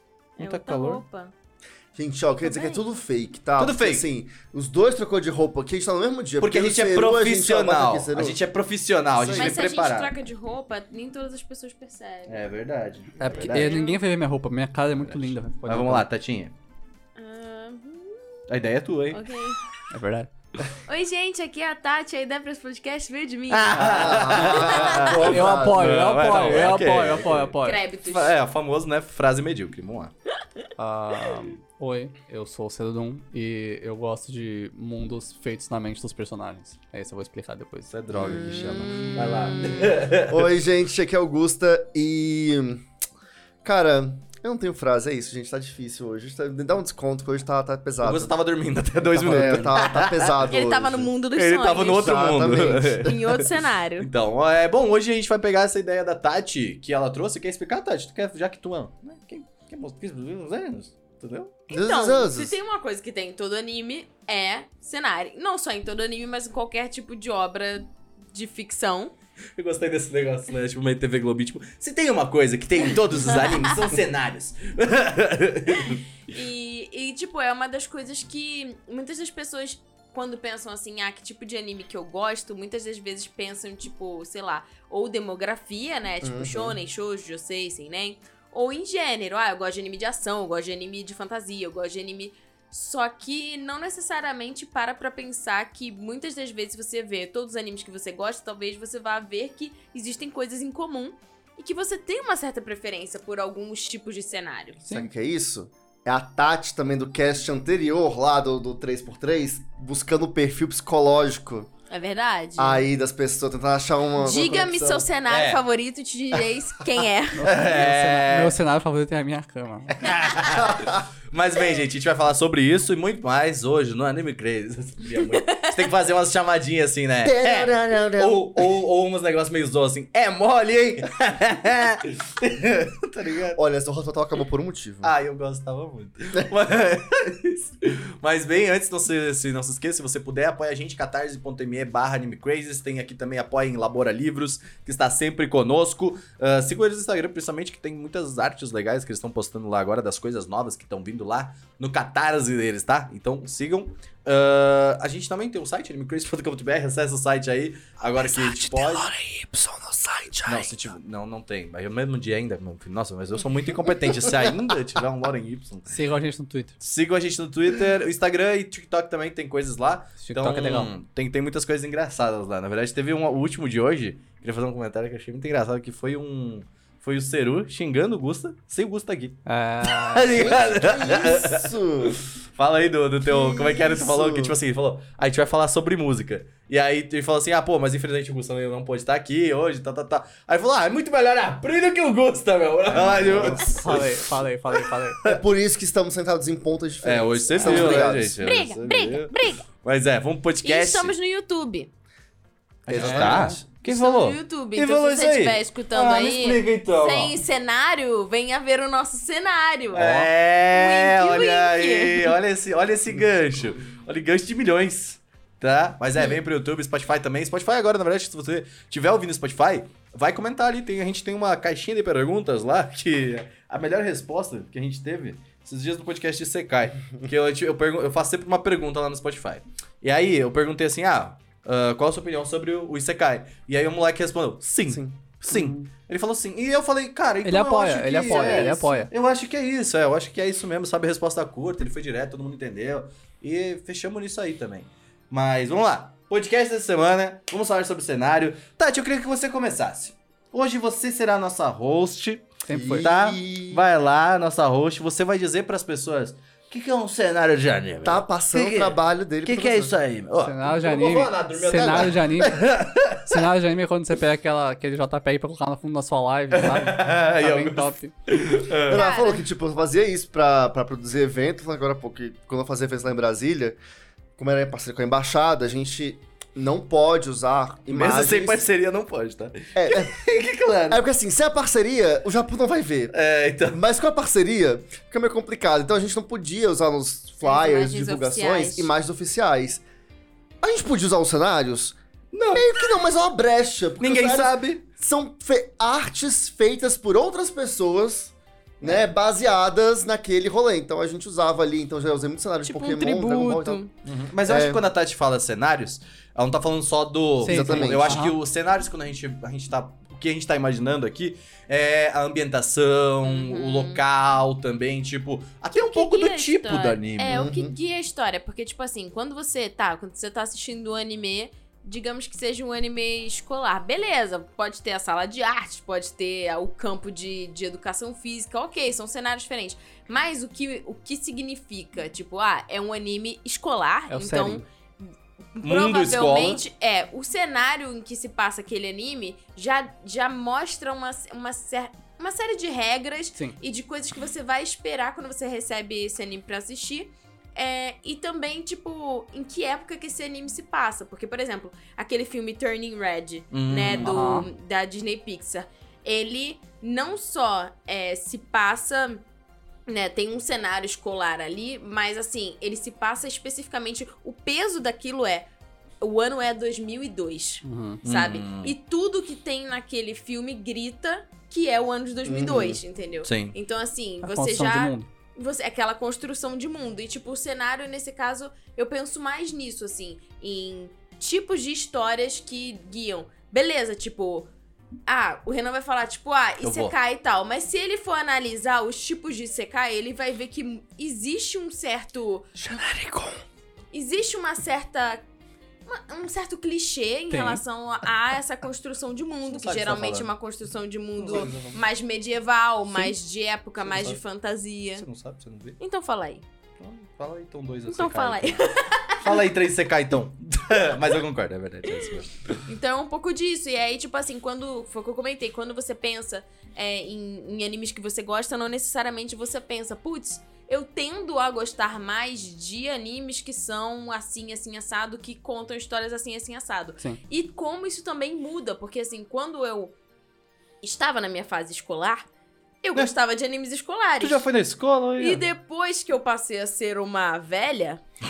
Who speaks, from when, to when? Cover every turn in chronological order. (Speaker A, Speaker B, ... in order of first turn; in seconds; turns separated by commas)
Speaker A: 0.4-1.3, Speaker B: 0.4-1.0, Speaker C: 1.9-8.4, Speaker A: 2.4-2.8, Speaker B: 3.6-4.0, Speaker B: 6.4-10.1, Speaker C: 9.1-9.6, Speaker A: 9.3-12.5, Speaker B: 12.3-13.7, Speaker D: 13.2-16.1, Speaker A: 13.2-14.0, Speaker C: 13.3-13.7, Speaker B: 15.0-16.5, Speaker A: 17.1-18.2, Speaker B: 18.5-19.2, Speaker A: 19.1-19.6, Speaker D: 19.9-20.3, Speaker A: 20.9-25.3, Speaker B: 23.5-30.1, Speaker C: 23.8-26.0, Speaker D: 25.2-27.8, Speaker A: 27.6-28.3, Speaker D: 30.8-37.9, Speaker B: 37.9-40.5, Speaker A: 38.2-39.9, Speaker C: 40.3-42.8, Speaker C: 43.6-48.3, Speaker B: 48.0-50.3, Speaker D: 49.1-49.7, Speaker C: 49.1-51.1, Speaker A: 50.5-54.1, Speaker B: 51.3-53.5, Speaker C: 51.9-53.1, Speaker B: 54.0-61.6, Speaker A: 61.7-69.1, Speaker C: 61.7-62.5, Speaker B: 69.5-76.0, Speaker A: 73.2-73.7, Speaker A: 75.9-104.8, Speaker C: 86.2-86.8, Speaker D: 104.8-105.1, Speaker C: 104.9-111.7, Speaker A: 111.9-112.8, Speaker C: 112.6-115.1, Speaker A: 114.2-117.5, Speaker B: 115.3-115.6, Speaker D: 117.4-120.0, Speaker B: 117.4-118.5, Speaker B: 120.0-133.6, Speaker A: 120.0-120.7, Speaker A: 125.1-125.9, Speaker C: 127.2-128.8, Speaker C: 133.5-135.1, Speaker B: 135.0-159.1, Speaker C: 158.2-160.8, Speaker B: 160.4-165.9, Speaker D: 165.9-166.7, Speaker B: 166.8-194.3, Speaker D: 170.2-170.9, Speaker D: 179.4-180.6, Speaker C: 180.3-182.2, Speaker C: 183.3-184.6, Speaker C: 192.9-194.0, Speaker D: 193.7-195.2, Speaker C: 195.2-198.4, Speaker B: 197.0-201.1, Speaker A: 197.6-199.6, Speaker D: 197.6-198.0, Speaker A: 200.6-201.9, Speaker B: 202.8-207.3, Speaker C: 202.9-203.6, Speaker D: 202.9-203.5, Speaker A: 203.8-212.3, Speaker B: 209.9-263.5, Speaker C: 234.9-235.1, Speaker D: 235.5-235.9, Speaker D: 237.4-239.1, Speaker A: 238.2-239.0, Speaker D: 252.7-253.1, Speaker C: 252.7-253.8, Speaker C: 258.0-259.9, Speaker D: 260.4-262.6, Speaker C: 261.7-262.1, Speaker D: 263.3-268.1, Speaker B: 266.5-269.1, Speaker C: 268.9-273.8, Speaker A: 268.9-269.4, Speaker C: 274.4-278.6, Speaker B: 277.9-281.0, Speaker C: 279.7-280.2, Speaker C: 280.9-283.1, Speaker B: 283.1-283.8, Speaker C: 283.7-289.8, Speaker A: 287.4-288.9, Speaker C: 290.6-292.0, Speaker B: 292.3-292.7, Speaker C: 292.5-303.8, Speaker B: 294.0-294.8, Speaker A: 302.6-303.9, Speaker B: 304.0-317.5, Speaker C: 304.4-304.8, Speaker D: 307.4-308.3, Speaker C: 307.4-308.2, Speaker A: 313.2-314.0, Speaker A: 315.7-359.2, Speaker C: 317.3-317.7, Speaker D: 334.1-334.6, Speaker B: 335.6-336.6, Speaker B: 353.5-354.2, Speaker D: 354.0-354.5, Speaker A: 359.9-365.5, Speaker A: 366.0-384.5, Speaker D: 367.6-368.0, Speaker B: 368.0-368.7, Speaker C: 372.2-372.8, Speaker B: 373.2-373.5, Speaker D: 374.2-375.1, Speaker A: 385.1-392.5, Speaker B: 386.6-386.9, Speaker C: 392.6-393.4, Speaker A: 393.9-395.2, Speaker A: 395.9-405.1, Speaker D: 397.3-397.6, Speaker B: 399.5-400.3, Speaker B: 401.2-401.8, Speaker B: 403.8-404.2, Speaker B: 405.0-405.8, Speaker A: 405.8-406.4, Speaker B: 406.8-408.7, Speaker A: 407.9-409.4, Speaker B: 409.2-412.6, Speaker A: 411.9-412.1, Speaker A: 412.7-429.9, Speaker A: 430.8-432.2, Speaker A: 432.8-434.4, Speaker B: 434.2-435.4, Speaker A: 435.2-438.0